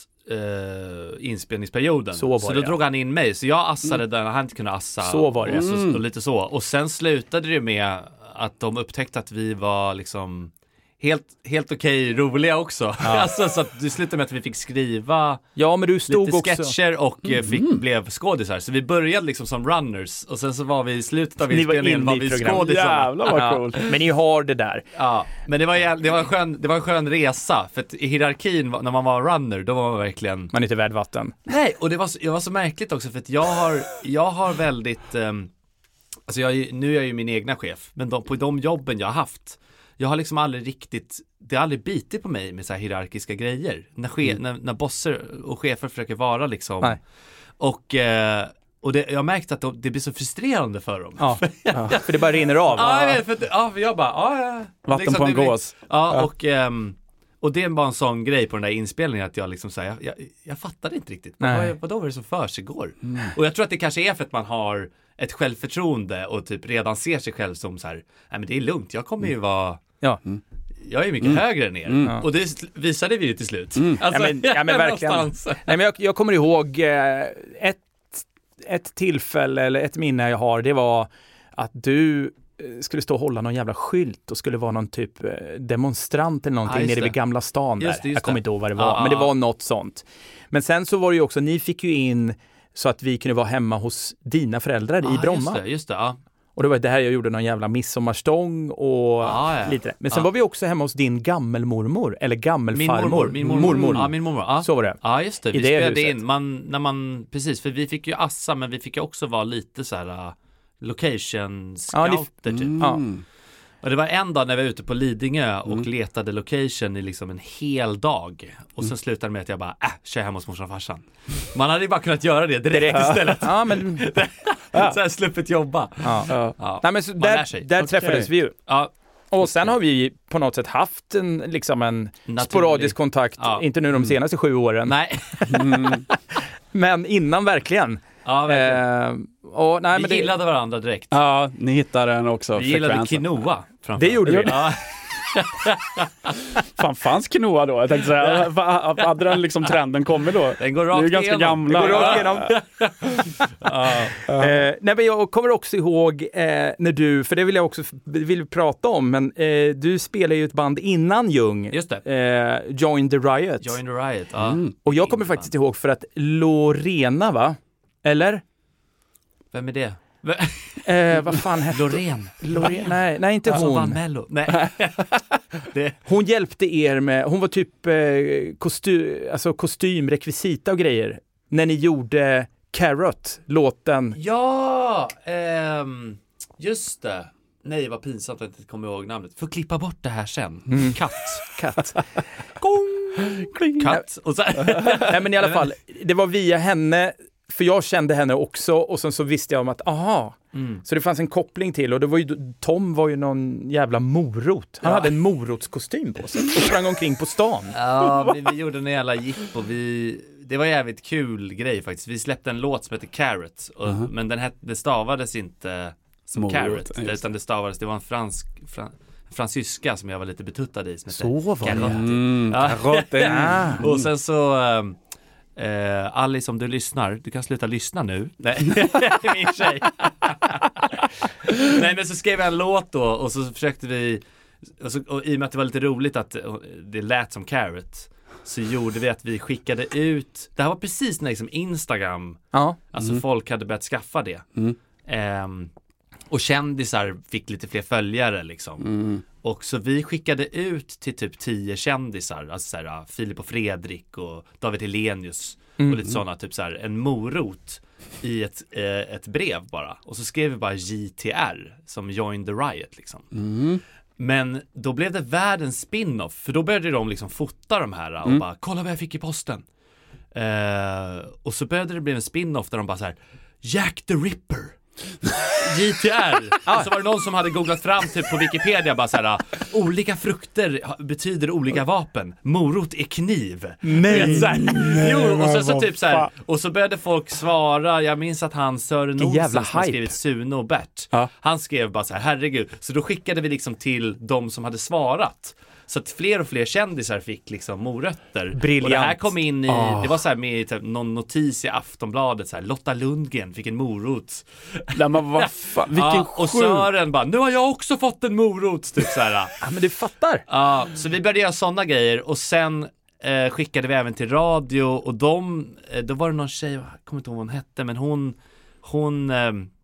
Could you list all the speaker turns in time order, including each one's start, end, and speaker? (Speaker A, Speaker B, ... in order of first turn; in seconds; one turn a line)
Speaker A: 0.3-15.5
Speaker B: 2.1-2.8
Speaker B: 5.0-5.7
Speaker C: 5.5-6.0
Speaker B: 13.0-13.3
Speaker B: 15.6-16.8
Speaker A: 16.1-23.2
Speaker C: 17.2-17.8
Speaker B: 21.5-24.9
Speaker C: 22.6-24.0
Speaker A: 24.9-30.5
Speaker B: 30.5-31.4
Speaker A: 31.5-35.5
Speaker A: 36.3-47.0
Speaker A: 47.6-69.8
Speaker B: 51.2-53.2
Speaker C: 54.9-55.7
Speaker B: 61.4-61.8
Speaker A: 70.8-75.8
Speaker C: 71.9-72.2
Speaker B: 74.1-95.6
Speaker A: 86.7-87.2
Speaker A: 87.8-89.3
Speaker A: 95.0-96.2
Speaker B: 96.6-105.0
Speaker A: 99.2-100.3
Speaker A: 102.7-112.9
Speaker C: 103.4-104.1
Speaker B: 105.5-106.2
Speaker B: 111.9-112.3
Speaker C: 112.5-113.2
Speaker B: 112.8-113.0
Speaker A: 113.8-127.9
Speaker B: 122.7-124.1
Speaker C: 123.0-123.3
Speaker B: 126.0-128.6
Speaker C: 126.3-126.5
Speaker C: 127.8-128.3
Speaker A: 128.7-129.7
Speaker B: 129.3-140.3
Speaker A: 132.3-133.7
Speaker A: 134.9-136.0
Speaker C: 135.5-136.1
Speaker A: 138.2-138.8
Speaker A: 139.9-141.2
Speaker C: 141.1-143.2
Speaker A: 142.6-146.4
Speaker B: 144.0-144.7
Speaker C: 144.2-144.5
Speaker C: 146.8-152.5
Speaker A: 150.6-154.3
Speaker B: 151.7-152.6
Speaker B: 154.3-163.8
Speaker A: 161.7-162.0
Speaker A: 163.6-165.5
Speaker C: 164.4-164.7
Speaker B: 164.8-168.4
Speaker A: 169.5-170.9
Speaker B: 170.8-174.0
Speaker A: 171.6-176.0
Speaker B: 176.1-184.2
Speaker A: 184.2-191.6
Speaker B: 190.7-192.0
Speaker A: 192.6-195.7
Speaker C: 193.4-193.9
Speaker B: 194.7-207.8
Speaker A: 200.5-200.8
Speaker A: 204.8-205.1
Speaker A: 207.7-225.0
Speaker C: 216.4-217.2
Speaker B: 221.1-222.1
Speaker C: 221.7-224.1
Speaker B: 223.2-223.8
Speaker A: 225.6-234.2
Speaker A: 234.8-244.5
Speaker B: 242.5-242.8
Speaker A: 245.1-245.7
Speaker A: 246.3-248.9
Speaker C: 248.8-249.2
Speaker A: 249.4-263.3
Speaker B: 255.8-256.1
Speaker C: 263.3-263.8
Speaker A: 264.2-269.6
Speaker A: 270.3-274.8
Speaker A: 275.5-309.6
Speaker B: 283.8-284.6
Speaker C: 284.1-286.3
Speaker B: 289.2-290.1
Speaker B: 298.5-299.3
Speaker C: 299.7-300.1
Speaker C: 304.9-306.9
Speaker B: 309.6-310.4
Speaker A: 310.5-319.7